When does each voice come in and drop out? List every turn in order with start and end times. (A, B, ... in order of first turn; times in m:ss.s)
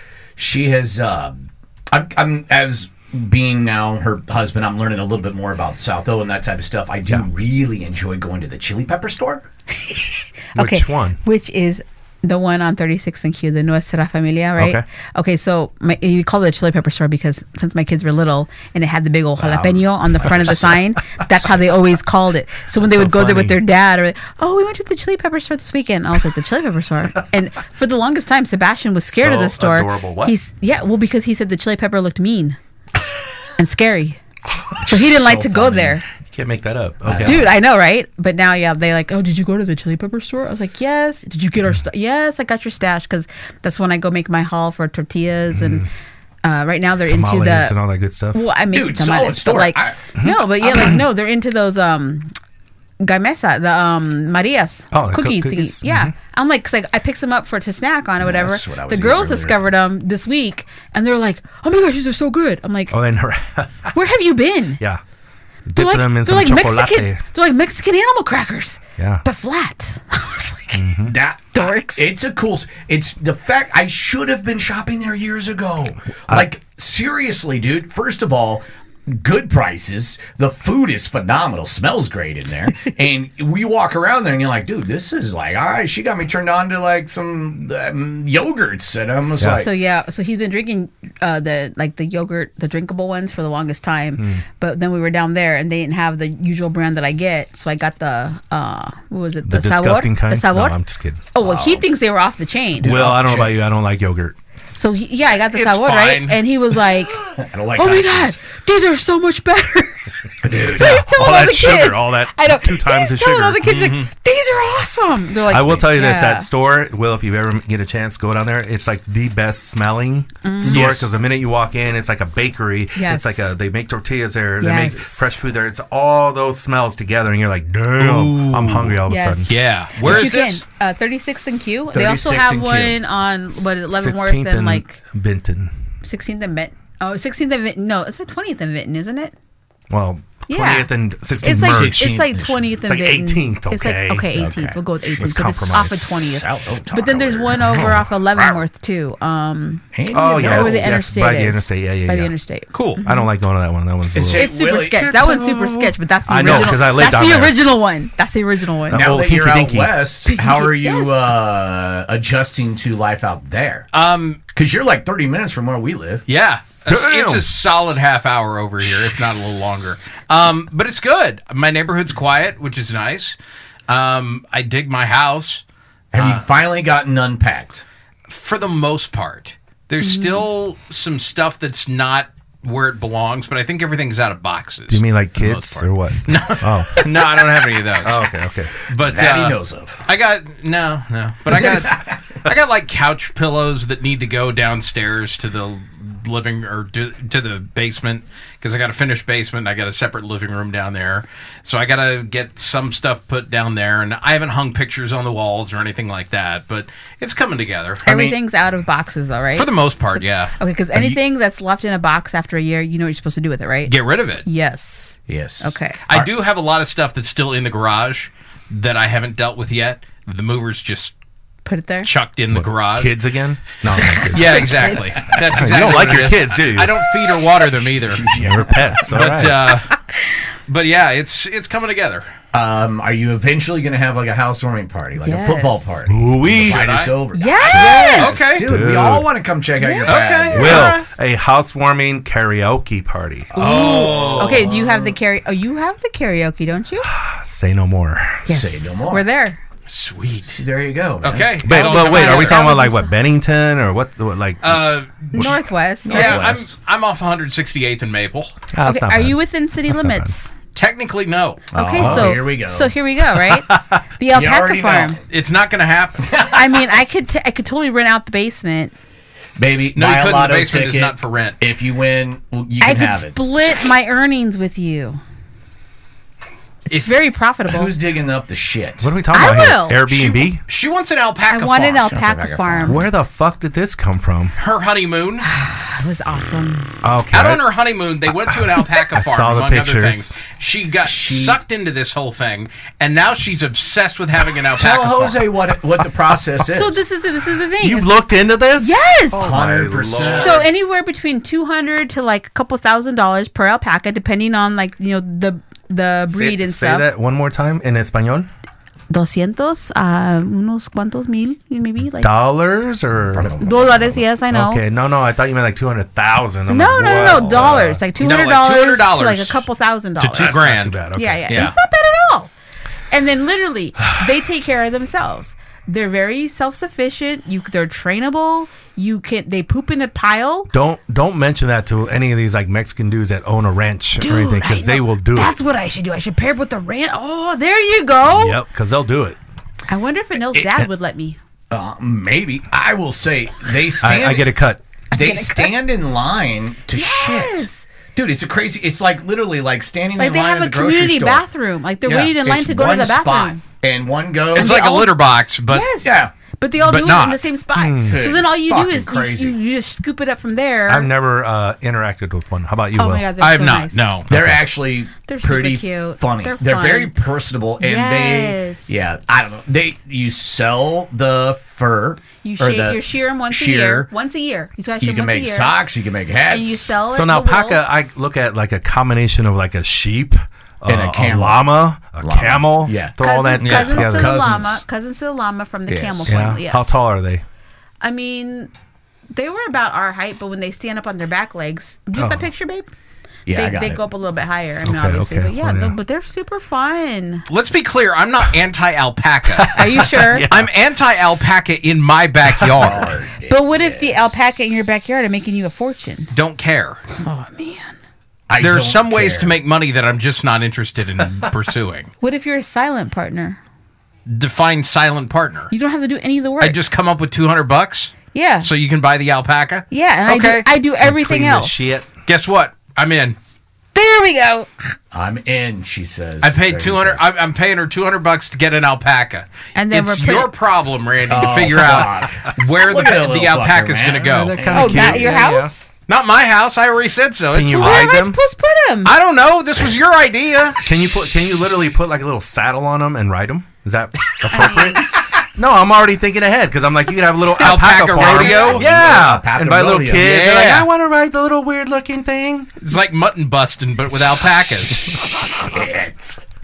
0:00.4-0:09.4 A
0:09.7-0:32.6 B
0:10.6-0:11.2 C
0:14.6-0:14.8 C
0:19.4-0:20.8 A
0:22.8-0:23.6 C
0:29.1-0:30.3 C
0:33.6-0:34.2 B
0:34.8-0:36.0 B
0:34.9-0:35.9 A
0:36.1-0:37.5 C
0:37.0-0:37.5 A
0:37.2-0:45.9 B
0:45.5-0:45.9 C
0:46.4-0:47.8 B
0:47.1-0:48.4 C
0:48.3-0:52.3 B
0:48.7-0:50.0 A
0:50.2-0:51.0 C
0:53.0-1:02.9 B
0:54.9-0:56.1 C
0:58.2-0:59.6 A
1:02.9-1:03.9 C
1:03.9-1:04.8 B
1:05.6-1:07.2 C
1:05.8-1:11.0 B
1:09.0-1:09.2 C
1:10.7-1:11.2 C
1:11.0-1:29.7 A
1:11.5-1:12.1 B
1:29.4-1:29.7 C
1:29.5-1:40.8 B
1:34.2-1:34.4 C
1:39.4-1:41.2 C
1:41.3-1:42.9 B
1:41.4-1:41.8 A
1:42.8-1:43.6 A
1:42.8-1:44.4 C
1:44.8-1:47.2 B
1:45.5-1:46.4 D
1:47.2-1:48.4 A
1:47.8-1:56.5 B
1:50.4-1:51.0 A
1:50.5-1:53.7 C
1:53.6-1:54.1 D
1:55.5-2:09.6 C
2:00.4-2:00.9 B
2:00.6-2:01.0 A
2:02.9-2:03.5 B
2:04.6-2:05.3 B
2:08.0-2:10.6 D
2:09.1-2:14.9 B
2:11.9-2:13.0 A
2:13.7-2:15.7 C
2:16.0-2:19.3 B
2:19.9-2:22.2 C
2:20.5-2:20.9 B
2:21.4-2:33.3 B
2:21.4-2:22.7 A
2:22.8-2:24.4 C
2:24.3-2:24.8 A
2:25.2-2:26.2 C
2:26.1-2:27.8 A
2:27.6-2:28.1 C
2:28.4-2:28.6 A
2:29.9-2:30.9 A
2:30.1-2:32.3 C
2:32.7-2:33.0 D
2:33.0-2:34.5 C
2:34.1-2:35.4 A
2:34.3-2:39.0 B
2:35.0-2:37.6 C
2:36.4-2:36.7 A
2:38.9-2:40.0 C
2:38.9-2:43.9 A
2:40.3-2:41.2 B
2:43.9-2:44.4 D
2:44.5-2:46.2 A
2:46.3-2:53.4 D
2:46.9-2:47.5 C
2:53.9-2:55.6 D
2:56.1-2:57.8 A
2:56.1-2:56.4 D
2:58.3-3:08.2 D
3:00.0-3:00.4 B
3:04.9-3:07.3 C
3:07.0-3:07.5 A
3:08.0-3:08.7 C
3:08.9-3:28.2 D
3:09.0-3:10.0 A
3:11.5-3:12.2 A
3:28.0-3:36.0 B
3:28.1-3:28.4 A
3:29.5-3:30.5 D
3:33.8-3:34.4 D
3:35.3-3:36.3 A
3:36.1-3:41.1 D
3:41.6-3:42.1 B
3:42.0-3:43.2 D
3:42.5-3:47.0 C
3:44.1-3:48.3 D
3:44.1-3:45.3 B
3:48.1-3:49.0 A
3:48.3-3:49.7 C
3:49.1-3:50.0 D
3:50.7-3:52.2 D
3:52.5-4:01.0 A
3:55.2-3:56.0 B
3:56.1-3:56.9 C
3:56.5-3:58.6 D
3:57.3-3:58.4 B
3:58.6-3:59.3 C
3:59.8-4:00.8 B
4:00.1-4:01.1 D
4:00.5-4:03.6 C
4:03.6-4:04.7 D
4:03.6-4:07.1 B
4:03.6-4:05.2 A
4:07.0-4:08.5 C
4:08.4-4:09.2 A
4:08.4-4:09.6 B
4:09.9-4:10.6 D
4:10.5-4:11.6 A
4:11.2-4:12.6 D
4:11.6-4:15.6 C
4:11.7-4:13.1 B
4:14.6-4:18.5 D
4:15.3-4:16.4 B
4:16.0-4:16.7 A
4:18.7-4:20.3 C
4:18.8-4:20.5 B
4:20.7-4:21.6 D
4:21.7-4:22.9 A
4:21.7-4:25.2 B
4:22.0-4:22.4 C
4:23.5-4:24.0 C
4:24.3-4:25.2 A
4:25.3-4:26.3 D
4:26.2-4:26.8 A
4:26.4-4:28.9 B
4:29.6-4:33.4 A
4:29.9-4:31.6 D
4:32.8-4:35.2 B
4:36.9-4:37.9 B
4:37.6-4:39.1 A
4:39.0-4:40.6 C
4:39.3-4:40.1 B
4:40.3-4:42.1 D
4:41.5-4:43.0 B
4:42.0-4:43.0 A
4:42.8-4:44.5 C
4:44.6-4:45.4 D
4:45.4-4:47.0 B
4:47.0-4:47.6 C
4:47.3-4:55.5 D
4:48.5-4:50.4 C
4:51.0-4:51.6 A
4:54.8-4:57.0 A
4:56.7-4:58.2 B
4:57.8-5:00.7 C
4:58.8-4:59.6 B
4:59.3-5:00.6 A
5:00.3-5:07.1 B
5:06.3-5:08.5 C
5:09.1-5:12.3 B
5:12.2-5:13.6 C
5:13.3-5:14.2 A
5:13.6-5:14.8 B
5:14.5-5:18.0 C
5:16.7-5:22.5 B
5:18.2-5:19.6 D
5:20.2-5:21.7 D
5:20.3-5:21.7 C
5:23.1-5:30.7 B
5:30.7-5:35.6 C
5:34.2-5:38.6 B
5:38.2-5:39.4 C
5:39.9-5:41.4 B
5:41.7-5:44.5 A
5:44.0-5:44.8 C
5:45.1-5:45.7 B
5:45.1-5:51.4 A
5:46.9-5:47.8 B
5:50.2-5:53.6 B
5:52.0-5:54.8 A
5:54.5-5:55.9 D
5:54.5-6:01.1 B
5:56.0-5:56.3 A
5:56.8-5:57.5 D
5:57.8-5:58.2 C
5:58.1-5:59.6 A
6:00.9-6:03.3 C
6:03.0-6:04.1 B
6:03.4-6:04.3 D
6:04.3-6:04.6 C
6:04.3-6:14.1 A
6:05.3-6:07.1 B
6:07.8-6:09.0 B
6:12.4-6:15.8 B
6:15.0-6:16.9 A
6:16.5-6:17.8 B
6:17.1-6:24.5 C
6:20.9-6:24.8 A
6:23.2-6:27.0 B
6:23.6-6:23.9 D
6:25.9-6:26.4 A
6:26.2-6:27.4 C
6:28.0-6:28.7 B
6:29.3-6:32.9 B
6:32.2-6:32.5 C
6:33.4-6:34.0 A
6:33.5-6:37.4 B
6:34.8-6:36.0 C
6:37.5-6:43.1 D
6:39.5-6:40.7 C
6:39.7-6:40.5 B
6:42.5-6:42.9 C
6:42.8-6:44.4 A
6:43.5-6:46.3 B
6:46.3-6:47.0 D
6:47.2-6:47.9 B
6:48.5-6:49.6 A
6:48.6-6:52.1 D
6:52.2-6:53.6 B
6:54.3-6:55.7 D
6:55.7-6:56.8 B
6:56.6-7:00.6 D
6:58.3-6:58.7 B
6:59.9-7:01.8 B
7:01.0-7:02.1 C
7:02.2-7:03.4 D
7:03.9-7:04.9 B
7:05.1-7:07.2 A
7:06.4-7:14.6 D
7:09.7-7:10.5 B
7:11.3-7:15.4 A
7:14.3-7:15.7 C
7:14.7-7:15.8 B
7:16.1-7:18.1 D
7:17.5-7:18.4 C
7:17.7-7:19.1 B
7:19.0-7:20.8 D
7:20.8-7:32.7 C
7:24.5-7:25.1 B
7:27.6-7:28.9 D
7:27.7-7:28.8 B
7:28.4-7:30.4 A
7:30.2-7:30.9 D
7:32.8-7:35.2 D
7:35.5-7:36.4 A